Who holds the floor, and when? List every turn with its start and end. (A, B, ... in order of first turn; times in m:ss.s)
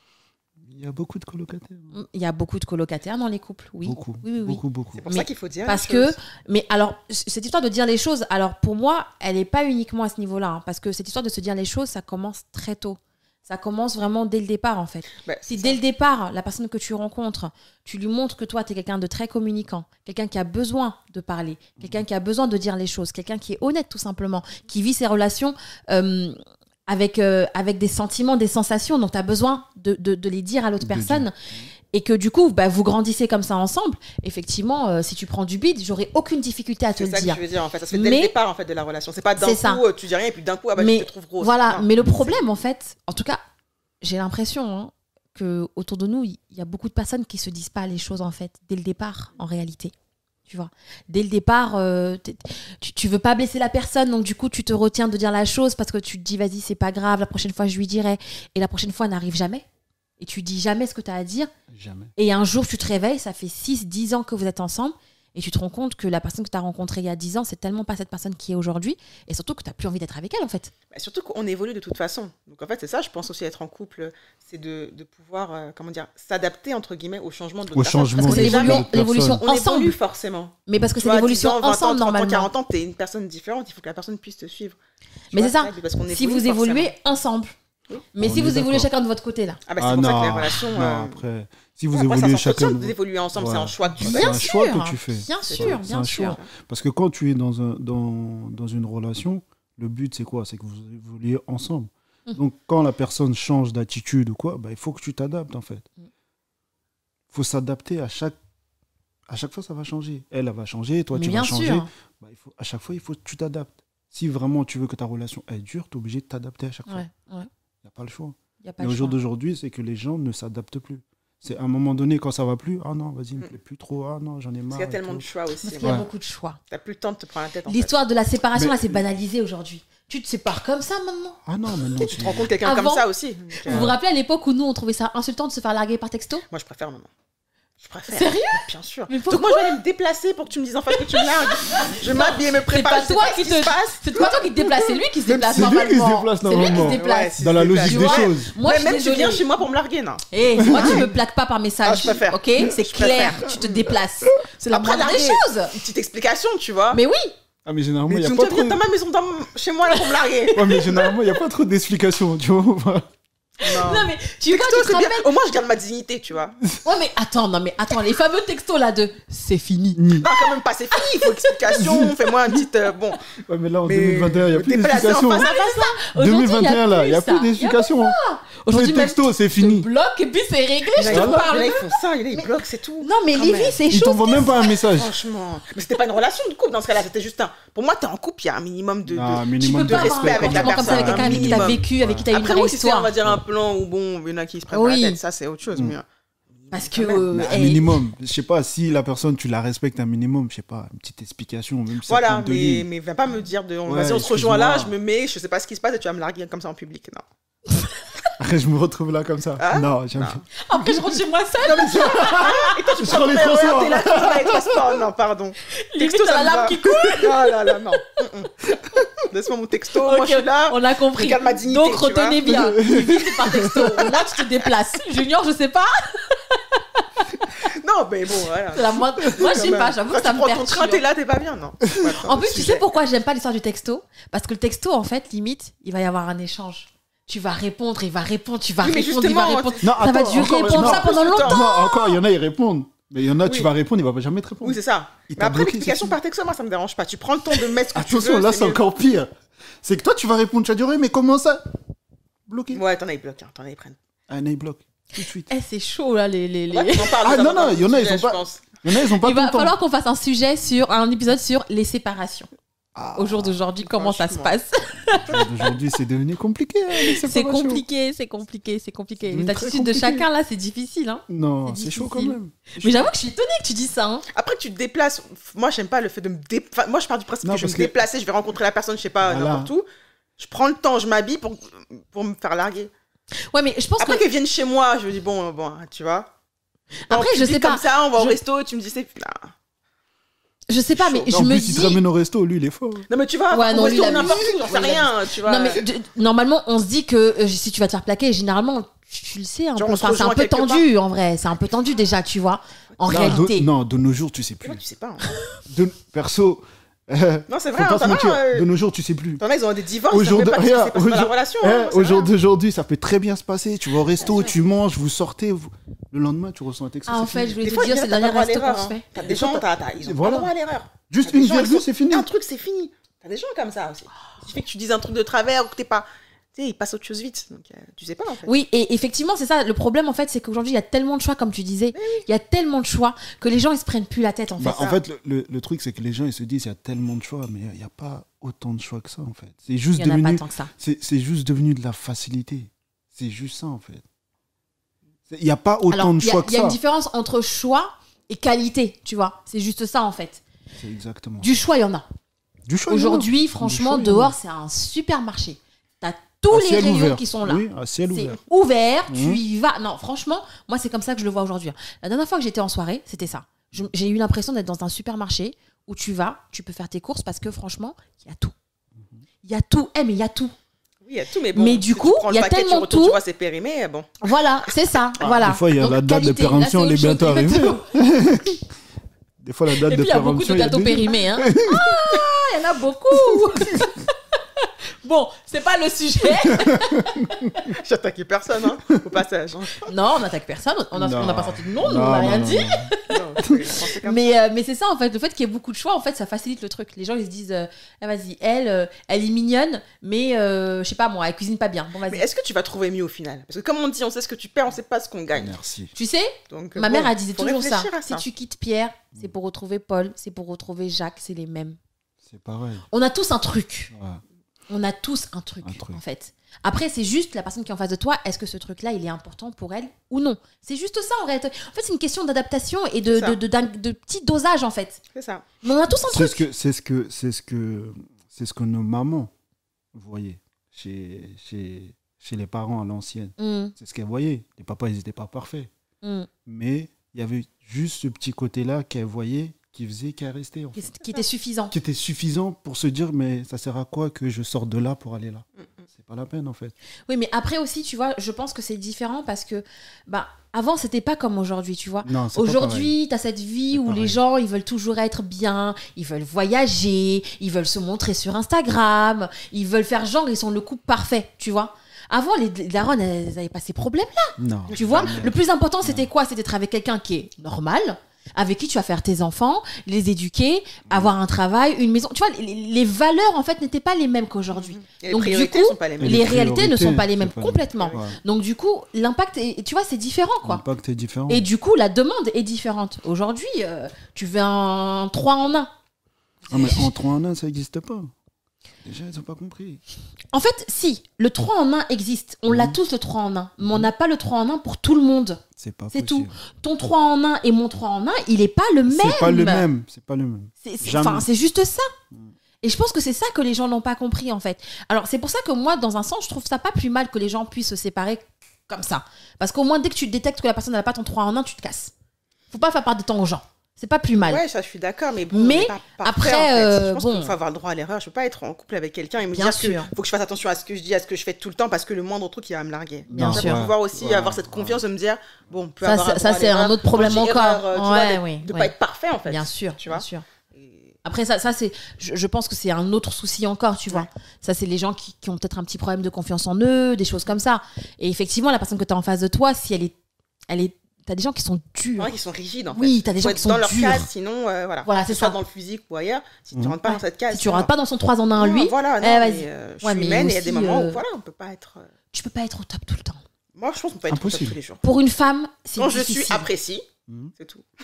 0:00.6-0:01.9 A
0:01.9-0:31.4 B
0:03.8-0:05.0 A
0:05.0-0:06.2 C
0:15.2-0:15.8 C
0:30.8-0:31.7 A
0:31.9-0:37.4 B
0:37.0-0:42.4 C
0:37.9-0:38.4 B
0:39.4-0:39.8 B
0:40.8-0:43.4 B
0:44.0-0:49.9 B
0:50.5-0:59.6 B
1:00.2-1:01.5 B
1:01.7-1:02.1 A
1:02.2-1:10.7 B
1:10.9-1:24.8 C
1:17.7-1:19.4 A
1:18.2-1:20.0 B
1:20.7-1:22.5 B
1:25.3-1:26.9 C
1:25.3-1:27.6 B
1:28.1-1:29.6 B
1:28.2-1:28.9 A
1:29.7-1:31.2 C
1:29.8-1:45.9 A
1:31.9-1:34.5 C
1:34.0-1:36.4 B
1:35.5-1:36.4 C
1:47.3-1:48.4 A
1:49.3-1:57.1 A
1:51.1-1:51.9 B
1:56.9-1:57.5 B
1:57.8-2:05.3 A
1:58.6-1:59.2 B
2:04.7-2:06.1 C
2:05.6-2:06.6 B
2:05.8-2:06.1 A
2:06.7-2:07.9 C
2:07.7-2:11.4 B
2:08.6-2:09.0 A
2:11.5-2:12.5 A
2:12.0-2:13.9 C
2:12.6-2:13.0 B
2:13.6-2:16.4 B
2:13.7-2:14.0 A
2:16.5-2:17.1 C
2:17.8-2:24.4 C
2:18.1-2:19.8 B
2:20.9-2:29.5 B
2:24.6-2:28.5 A
2:25.5-2:25.8 C
2:26.5-2:31.1 C
2:30.3-2:35.8 B
2:30.6-2:31.1 A
2:31.8-2:33.9 C
2:34.7-2:37.0 C
2:36.9-2:37.3 B
2:37.6-2:38.8 A
2:38.1-2:40.9 C
2:40.1-2:41.1 B
2:40.5-2:43.1 A
2:43.6-2:45.3 B
2:43.6-2:46.6 C
2:46.8-2:50.4 B
2:50.0-2:50.3 A
2:50.2-2:53.2 C
2:50.9-2:52.0 B
2:51.7-2:52.6 A
2:53.3-2:55.5 A
2:53.8-2:56.0 C
2:55.3-3:02.5 B
2:56.1-2:58.2 A
2:58.7-2:59.9 A
3:01.0-3:03.8 C
3:01.0-3:01.5 A
3:03.0-3:04.9 B
3:03.9-3:05.2 A
3:04.8-3:16.0 C
3:09.1-3:12.3 A
3:09.6-3:13.1 B
3:14.7-3:15.2 B
3:16.6-3:17.3 C
3:16.7-3:18.0 B
3:17.3-3:22.9 A
3:22.1-3:27.2 C
3:23.9-3:24.9 A
3:28.4-3:31.2 A
3:29.6-3:30.4 C
3:30.6-3:32.8 B
3:31.6-3:42.6 C
3:31.7-3:35.0 A
3:35.7-3:38.2 B
3:40.0-3:47.0 B
3:42.4-3:44.1 A
3:43.9-3:44.4 C
3:47.6-3:52.9 C
3:48.7-3:51.0 B
3:52.2-4:02.2 B
3:58.8-4:01.7 C
3:59.8-4:06.2 A
4:03.4-4:03.7 C
4:04.6-4:08.8 C
4:07.9-4:09.3 A
4:09.8-4:11.6 A
4:12.5-4:12.8 A
4:12.7-4:14.0 C
4:14.3-4:15.5 A
4:15.5-4:17.2 B
4:16.7-4:18.7 C
4:17.2-4:19.8 A
4:19.2-4:22.5 B
4:23.0-4:23.6 A
4:23.2-4:25.5 B
4:23.8-4:24.6 C
4:25.1-4:27.8 A
4:27.0-4:34.3 B
4:29.3-4:30.3 A
4:31.3-4:33.1 A
4:34.3-4:39.9 C
4:37.4-4:38.0 A
4:39.2-4:39.7 A
4:40.4-4:42.9 C
4:43.5-4:44.2 B
4:44.0-4:46.3 C
4:47.0-4:48.4 B
4:47.1-4:49.5 C
4:50.7-4:52.0 B
4:51.0-4:51.3 C
4:51.3-4:53.1 A
4:53.1-4:55.8 C
4:53.5-5:03.7 B
4:53.8-4:54.6 A
4:59.8-5:00.9 C
5:03.1-5:03.4 C
5:03.1-5:04.8 A
5:04.6-5:05.3 C
5:05.7-5:09.4 A
5:07.5-5:08.7 C
5:09.4-5:12.3 C
5:10.1-5:17.6 A
5:17.1-5:19.6 B
5:17.6-5:28.5 C
5:20.0-5:20.5 A
5:21.1-5:22.3 A
5:28.4-5:35.0 B
5:32.0-5:32.3 C
5:34.6-5:44.0 A
5:40.0-5:40.7 B
5:45.3-5:46.8 A
5:45.9-5:50.4 B
5:50.8-5:51.5 A
5:51.4-5:52.1 B
5:52.7-5:54.4 A
5:52.9-6:08.5 B
5:56.5-5:58.4 A
5:59.1-5:59.4 A
6:09.4-6:10.5 B
6:11.0-6:14.2 C
6:11.6-6:13.2 B
6:14.2-6:17.9 B
6:15.2-6:18.6 A
6:19.4-6:22.3 A
6:19.7-6:27.6 B
6:23.1-6:23.9 A
6:26.5-6:27.5 A
6:27.7-6:29.9 C
6:29.8-6:33.2 B
6:31.0-6:32.9 A
6:33.1-6:34.4 C
6:34.0-6:42.2 B
6:42.1-6:45.6 C
6:45.3-6:45.9 A
6:46.0-6:51.8 B
6:46.5-6:48.3 C
6:52.2-6:52.9 A
6:52.9-6:53.9 B
6:53.9-6:54.2 A
6:54.7-7:05.0 B
6:55.6-6:56.0 A
7:03.1-7:03.4 C
7:05.1-7:05.4 C
7:05.6-7:06.4 B
7:05.9-7:09.3 A
7:09.9-7:15.7 A
7:13.4-7:13.7 B
7:16.0-7:16.3 B
7:16.4-7:20.9 A
7:20.8-7:21.8 B
7:21.7-7:26.7 A
7:27.1-8:00.6 B
7:32.0-7:32.9 A
7:33.7-7:34.2 A
7:44.4-7:46.1 A
7:54.6-7:56.3 C
7:56.0-7:58.2 A
8:00.4-8:01.5 A
8:01.3-8:05.7 B
8:06.5-8:06.9 B
8:06.5-8:08.1 A
8:08.8-8:09.8 A
8:10.3-8:19.7 B
8:12.5-8:12.8 A
8:13.6-8:13.9 A
8:15.6-8:16.4 A
8:18.9-8:21.3 A
8:20.6-8:21.9 B
8:22.6-8:31.9 B
8:32.5-8:34.4 B
8:34.2-8:50.9 C
8:35.3-8:37.4 B
8:39.3-8:39.9 B
8:43.1-8:43.6 B
8:43.1-8:44.8 A
8:45.8-8:48.7 B
8:47.0-8:47.2 A
8:49.3-8:50.2 B
8:51.0-9:00.0 B
9:00.5-9:02.1 B
9:02.0-9:07.7 C
9:02.7-9:04.1 B
9:04.8-9:05.4 B
9:06.8-9:11.0 B
9:08.4-9:11.9 C
9:12.1-9:13.2 B
9:13.6-9:14.8 C
9:14.1-9:14.6 A
9:14.8-9:16.5 B
9:15.8-9:16.9 C
9:17.4-9:17.6 C